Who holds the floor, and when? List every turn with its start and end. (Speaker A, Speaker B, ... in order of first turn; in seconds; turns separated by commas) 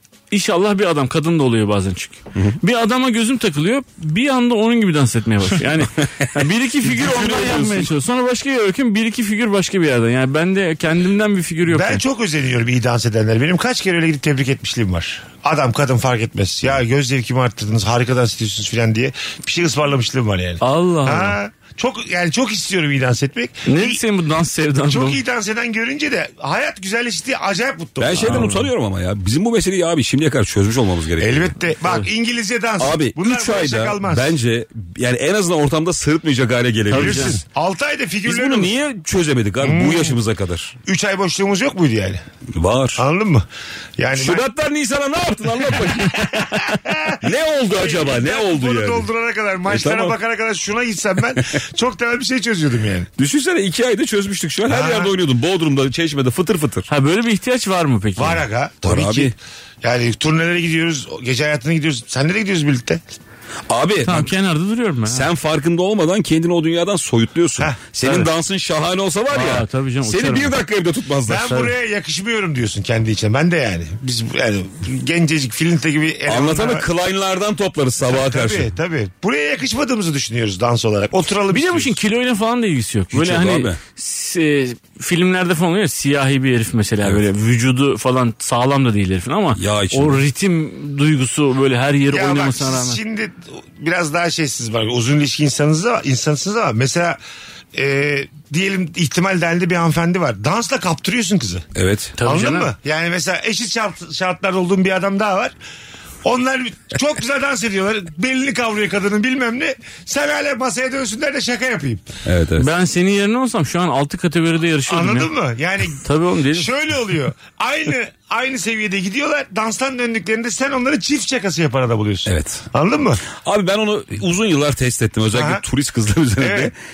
Speaker A: 0.3-12.0, Speaker B: 6.0-7.9, Speaker C: 11.7-24.0, Speaker A: 20.6-21.4, Speaker A: 23.7-25.2, Speaker C: 24.9-28.5, Speaker B: 28.0-31.5, Speaker A: 28.2-28.7, Speaker C: 31.2-34.4, Speaker B: 32.8-37.4, Speaker C: 36.9-38.7, Speaker A: 36.9-37.4, Speaker B: 38.3-40.8, Speaker C: 39.6-40.2, Speaker C: 40.9-42.2, Speaker B: 42.5-43.0, Speaker C: 43.0-43.5, Speaker C: 44.0-44.4, Speaker B: 44.1-46.6, Speaker C: 46.1-53.1, Speaker B: 47.2-49.1, Speaker B: 49.7-50.2, Speaker B: 53.2-56.9, Speaker C: 54.7-55.1, Speaker A: 56.9-58.4, Speaker C: 58.2-63.0, Speaker B: 58.8-59.3, Speaker B: 63.7-64.3, Speaker A: 64.0-65.3, Speaker B: 65.1-71.7, Speaker A: 68.0-68.3, Speaker A: 69.3-70.6, Speaker C: 71.3-76.9, Speaker B: 76.3-78.7, Speaker C: 78.0-82.0, Speaker A: 81.5-93.0, Speaker B: 83.1-83.8, Speaker B: 89.6-90.2, Speaker C: 92.1-97.2, Speaker C: 97.7-101.7, Speaker B: 101.8-102.2, Speaker A: 102.2-102.7, Speaker C: 102.2-105.5, Speaker C: 106.2-112.1, Speaker B: 112.2-112.7, Speaker A: 112.6-115.3, Speaker C: 114.9-123.2, Speaker A: 116.0-116.7, Speaker B: 122.3-122.6, Speaker B: 123.4-126.7, Speaker C: 125.3-125.6, Speaker C: 126.4-126.7